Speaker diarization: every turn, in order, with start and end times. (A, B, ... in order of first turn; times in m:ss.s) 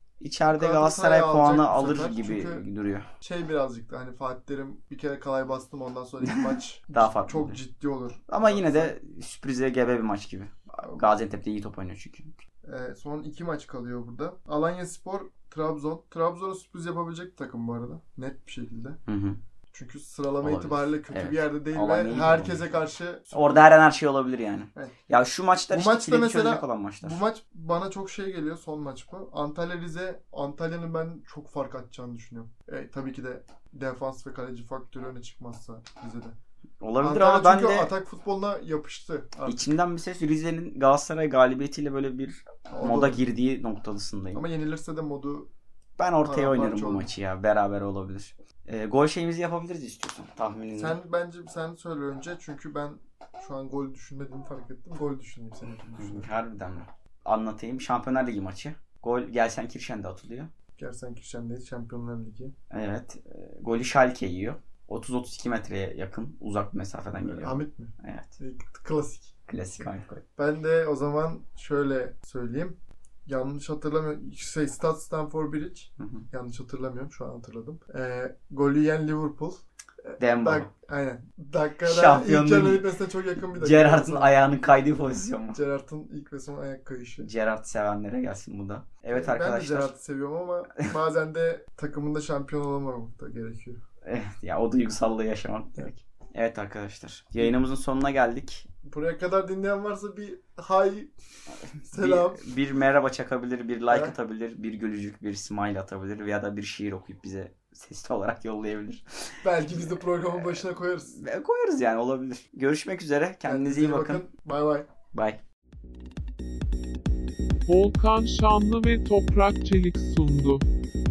0:00.2-0:03.1 A
0:00.5-0:02.6 B
0:03.2-0:08.9 B
0:06.2-0:07.6 A
0:08.3-0:12.4 A
0:12.6-0:19.0 B
0:19.0-0:19.4 A
0:19.7-0:23.8 B
0:20.4-0:22.8 A
0:23.3-0:27.2 A
0:25.7-0:36.4 B
0:36.8-0:37.9 A
0:37.0-0:39.7 B
0:39.4-0:44.4 A
0:42.7-0:43.2 B
0:44.3-0:45.5 B
0:46.0-0:51.0 A
0:46.2-0:47.1 B
0:50.8-0:56.3 B
0:55.8-1:00.5 A
1:00.8-1:02.5 B
1:02.7-1:08.4 A
1:07.2-1:09.8 B
1:09.5-1:10.2 A
1:10.4-1:24.4 B
1:16.0-1:16.2 A
1:20.2-1:20.7 A
1:21.8-1:22.9 A
1:23.5-1:25.6 A
1:25.5-1:27.3 B
1:27.2-1:29.9 A
1:29.1-1:33.8 B
1:34.0-1:38.6 A
1:37.4-1:37.6 B
1:38.8-1:41.1 B
1:41.7-1:54.2 A
1:41.9-1:42.5 B
1:43.9-1:44.2 B
1:49.4-1:51.2 B
1:53.4-1:54.9 B
1:55.1-1:55.4 A
1:57.6-2:00.6 C